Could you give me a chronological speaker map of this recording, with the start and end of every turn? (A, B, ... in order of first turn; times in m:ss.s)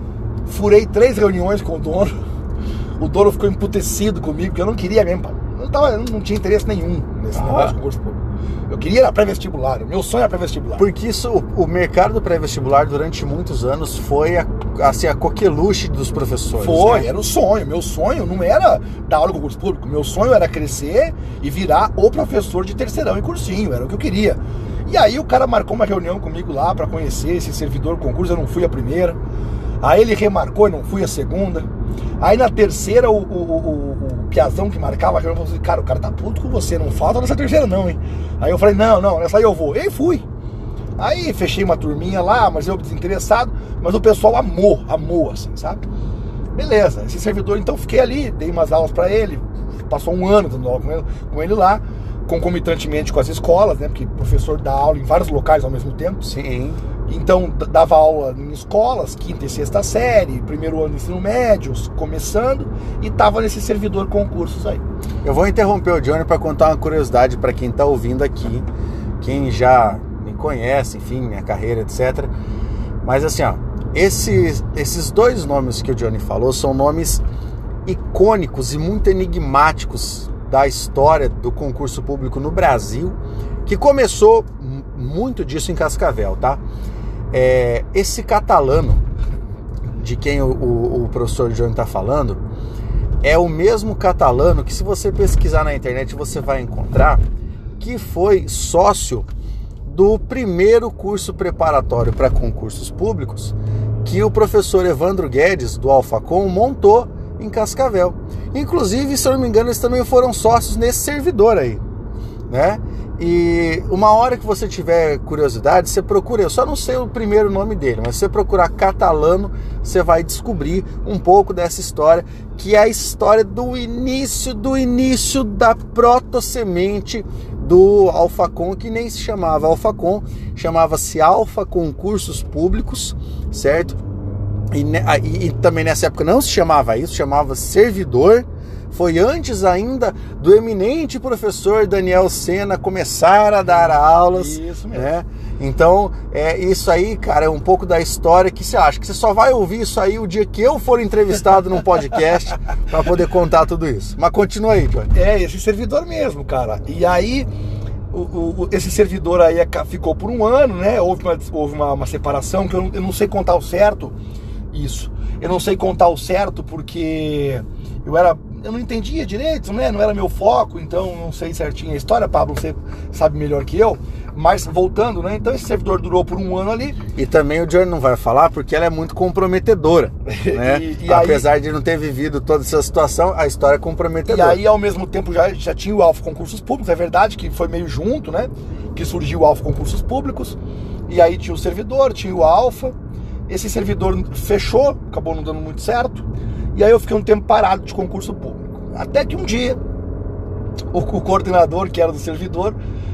0:00.4-0:02.2 A
0:03.0-0:10.9 A
0:07.3-0:07.7 B
0:10.8-0:17.1 B
0:16.6-0:29.2 A
0:29.8-0:31.7 A
0:32.2-0:40.3 A
0:41.0-0:45.8 A
0:46.5-0:56.2 A
0:56.2-0:56.8 B
0:57.1-1:04.8 A
1:05.2-1:08.7 B
1:09.2-1:12.3 B
1:13.0-1:17.2 B
1:17.9-1:26.6 B
1:27.3-1:29.0 B
1:29.9-1:32.4 B
1:33.2-1:37.2 B
1:37.8-1:39.3 B
1:39.8-1:51.8 B
1:52.5-2:14.0 B
2:14.7-2:35.1 B
2:23.7-2:25.1 A
2:35.1-2:37.5 A
2:38.1-2:44.2 A
2:44.7-2:57.0 A
2:57.2-3:04.6 B
3:00.3-3:01.5 A
3:04.3-3:13.0 A
3:13.5-3:19.8 A
3:20.9-3:22.8 A